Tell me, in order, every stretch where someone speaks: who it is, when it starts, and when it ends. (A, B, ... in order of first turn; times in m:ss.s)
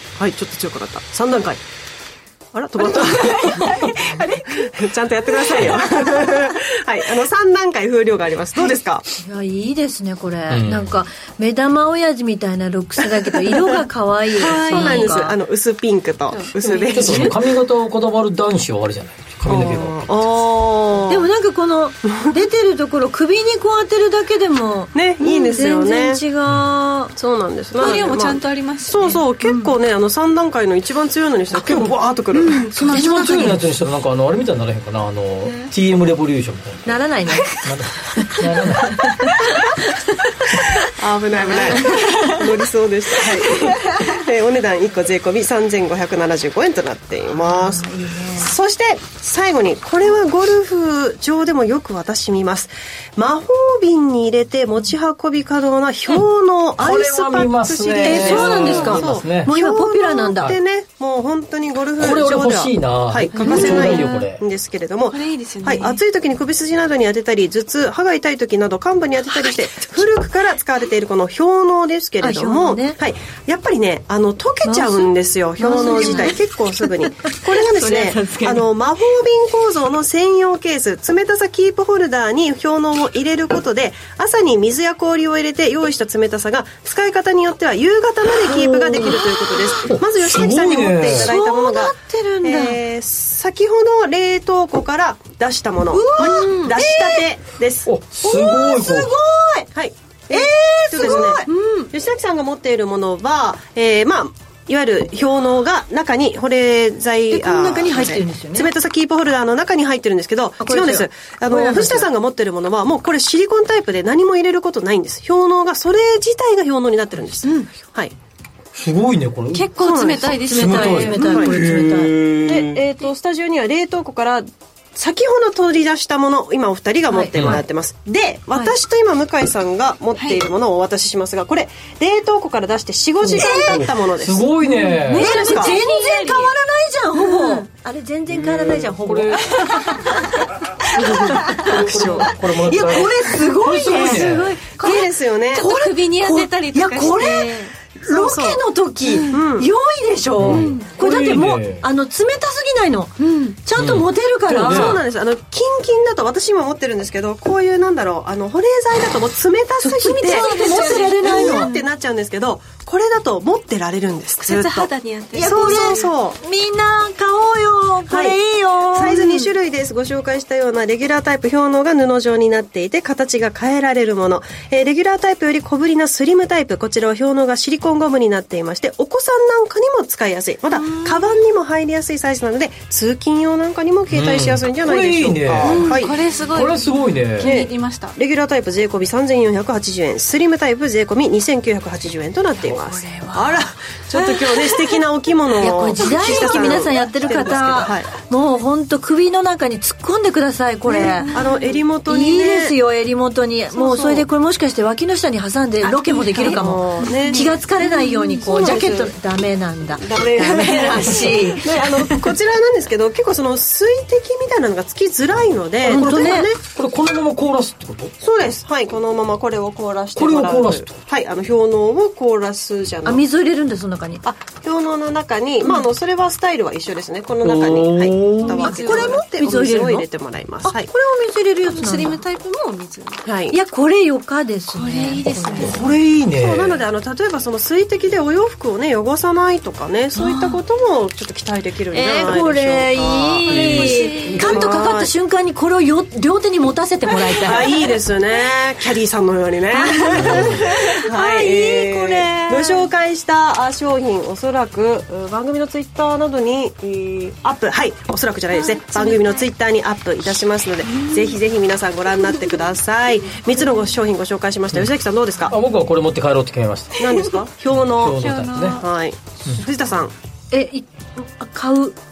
0:00.2-0:01.6 A
0:02.5-0:09.1 A
0:03.6-0:03.9 B
0:09.2-0:15.3 C
0:10.5-0:11.0 B
0:14.4-0:15.3 D
0:14.4-0:17.4 A
0:16.3-0:17.1 D
0:16.9-0:20.5 B
0:19.5-0:21.3 A
0:21.1-0:27.1 C
0:25.0-0:26.2 A
0:27.2-0:32.7 A
0:27.8-0:29.2 D
0:27.8-0:28.1 C
0:29.4-0:29.7 C
0:31.5-0:32.0 B
0:32.7-0:33.6 C
0:32.8-0:39.4 B
0:36.9-0:40.8 C
0:40.8-1:37.9 A
0:41.5-0:42.0 D
0:41.5-0:42.4 C
0:47.4-0:48.5 C
0:56.8-0:59.5 B
0:58.0-1:00.5 C
1:02.0-1:04.4 B
1:03.4-1:04.3 D
1:03.4-1:03.9 C
1:05.1-1:06.0 D
1:12.2-1:13.0 C
1:14.6-1:18.6 C
1:15.6-1:16.3 D
1:28.5-1:29.2 C
1:29.9-1:31.3 B
1:31.1-1:32.8 C
1:35.9-1:37.3 C
1:37.8-1:39.1 B
1:38.2-1:39.7 C
1:39.7-1:58.1 A
1:40.3-1:41.9 C
1:41.0-1:41.7 D
1:47.3-1:48.7 C
1:50.6-1:52.1 C
1:58.8-2:02.8 B
1:59.5-2:01.4 D
1:59.8-2:00.4 A
2:00.5-2:02.2 C
2:01.3-2:01.6 A
2:02.4-2:14.5 A
2:07.1-2:07.5 C
2:07.3-2:07.6 B
2:10.2-2:10.4 D
2:13.2-2:15.3 B
2:13.4-2:13.8 C
2:14.6-2:16.5 D
2:15.1-2:35.0 C
2:15.1-2:15.8 A
2:17.2-2:17.7 D
2:18.3-2:19.5 B
2:21.0-2:24.6 B
2:21.2-2:22.3 A
2:24.0-2:25.7 A
2:25.5-2:27.7 D
2:28.1-2:28.6 A
2:29.0-2:29.4 D
2:29.3-2:29.7 A
2:30.4-2:31.9 B
2:30.5-2:30.9 D
2:33.2-2:33.6 D
2:33.8-2:35.0 B
2:34.5-2:46.4 A
2:39.8-2:41.7 C
2:40.3-2:41.9 D
2:44.4-2:46.1 D
2:45.4-2:49.2 C
2:48.1-2:48.4 A
2:48.9-3:06.1 A
2:49.1-2:49.4 D
3:00.8-3:01.2 D
3:04.1-3:06.0 B
3:05.6-3:08.2 D
3:06.5-3:07.5 B
3:07.4-3:18.1 A
3:12.6-3:13.7 D
3:15.6-3:21.4 C
3:16.1-3:16.7 D
3:20.9-3:22.8 A
3:21.3-3:21.8 D
3:22.1-3:32.3 C
3:23.7-3:24.3 A
3:25.9-3:27.6 A
3:26.4-3:28.4 D
3:28.4-3:29.2 A
3:30.0-3:36.6 A
3:35.8-3:36.5 C
3:36.2-3:38.2 B
3:38.2-3:43.2 A
3:40.2-3:41.0 B
3:43.0-3:44.2 C
3:44.2-3:50.9 A
3:47.4-3:48.7 B
3:48.6-3:49.2 D
3:48.6-3:50.1 C
3:50.6-3:52.2 C
3:51.7-3:53.2 D
3:53.2-3:53.6 A
3:53.5-3:55.8 C
3:54.7-3:55.8 D
3:55.6-3:56.8 B
3:55.8-4:05.1 A
4:00.2-4:00.5 D
4:01.9-4:07.6 C
4:03.5-4:04.6 B
4:03.5-4:04.4 D
4:07.5-4:25.6 A
4:09.8-4:12.8 C
4:10.2-4:10.6 B
4:18.5-4:19.5 D
4:20.9-4:21.4 D
4:25.5-4:27.1 B
4:27.0-4:30.1 A
4:27.7-4:28.8 B
4:28.2-4:28.9 D
4:30.5-4:32.0 C